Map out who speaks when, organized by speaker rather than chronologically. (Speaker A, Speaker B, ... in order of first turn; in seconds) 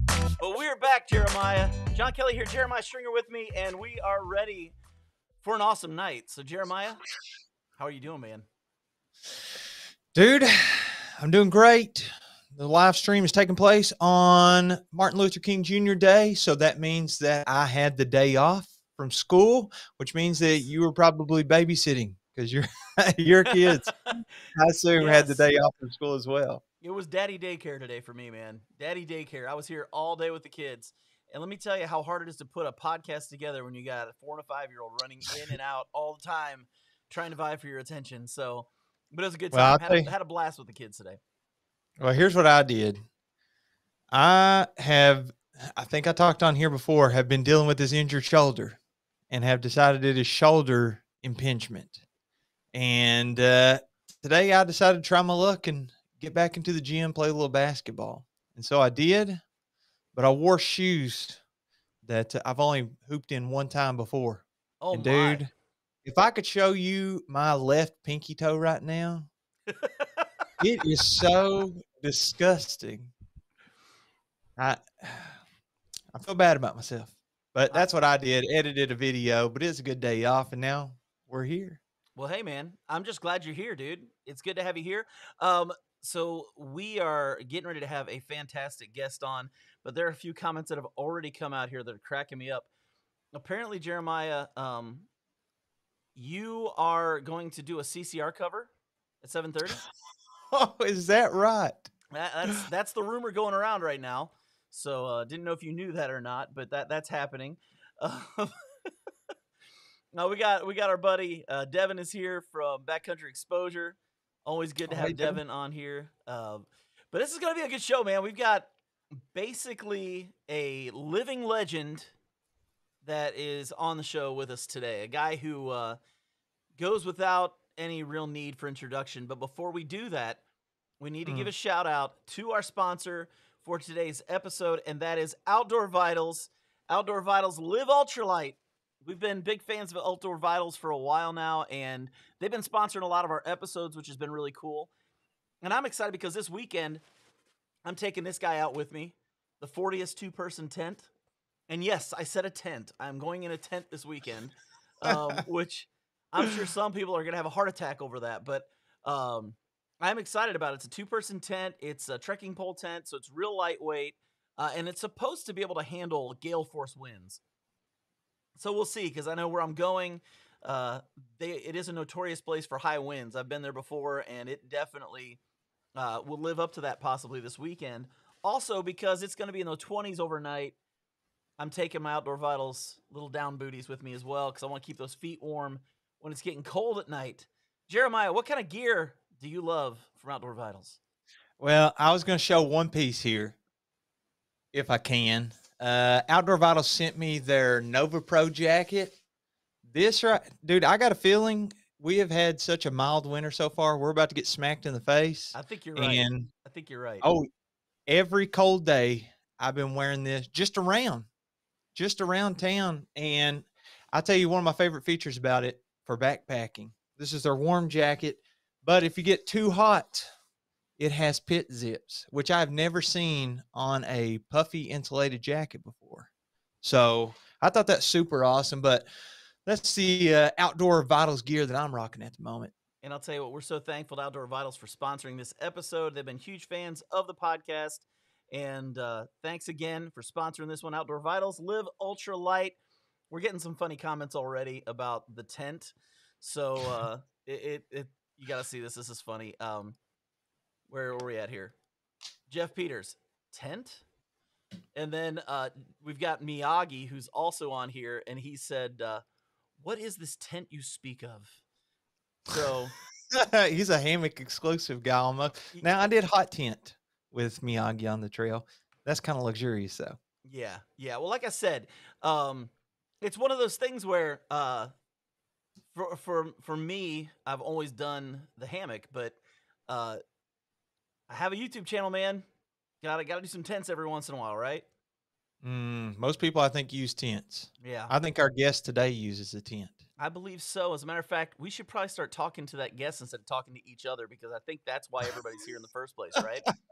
Speaker A: 0.4-4.8, 5.4-7.0, 7.8-8.5, 23.5-24.2, 25.0-25.4, 26.8-41.2, 64.8-65.5, 69.7-70.3, 82.2-92.7, 93.3-95.1, 96.2-98.7, 99.2-99.8, 102.1-108.5, 110.1-118.7, 119.3-122.1, 123.0-126.0, 126.8-130.4, 131.0-144.9, 145.6-147.0, 147.8-151.1, 151.7-167.4, 168.6-175.4, 175.9-180.8, 181.6-191.0, 205.5-207.2, 233.0-242.8, 243.3-250.0, 250.9-251.7, 252.5-254.0, 254.9-259.2, 259.8-261.6, 262.5-262.9, 265.7-266.0, 270.4-272.7, 273.2-274.9, 275.9-279.4, 279.9-280.2, 281.3-282.5, 283.0-284.9, 287.8-288.1, 290.2-296.7
Speaker B: 10.1-24.0, 24.5-26.6, 39.5-40.1, 42.0-43.0, 44.1-48.8, 49.3-52.0, 52.7-59.4, 60.1-61.4, 62.0-65.5, 66.0-69.3, 70.6-73.1, 74.6-75.4, 76.1-81.8, 100.5-101.9, 114.9-115.4, 131.2-131.5, 191.6-193.6, 194.7-199.2, 199.8-206.5, 207.2-207.5, 208.1-211.3, 211.9-220.3, 221.0-226.3, 226.8-229.1, 229.6-232.7, 263.3-270.2, 285.6-290.0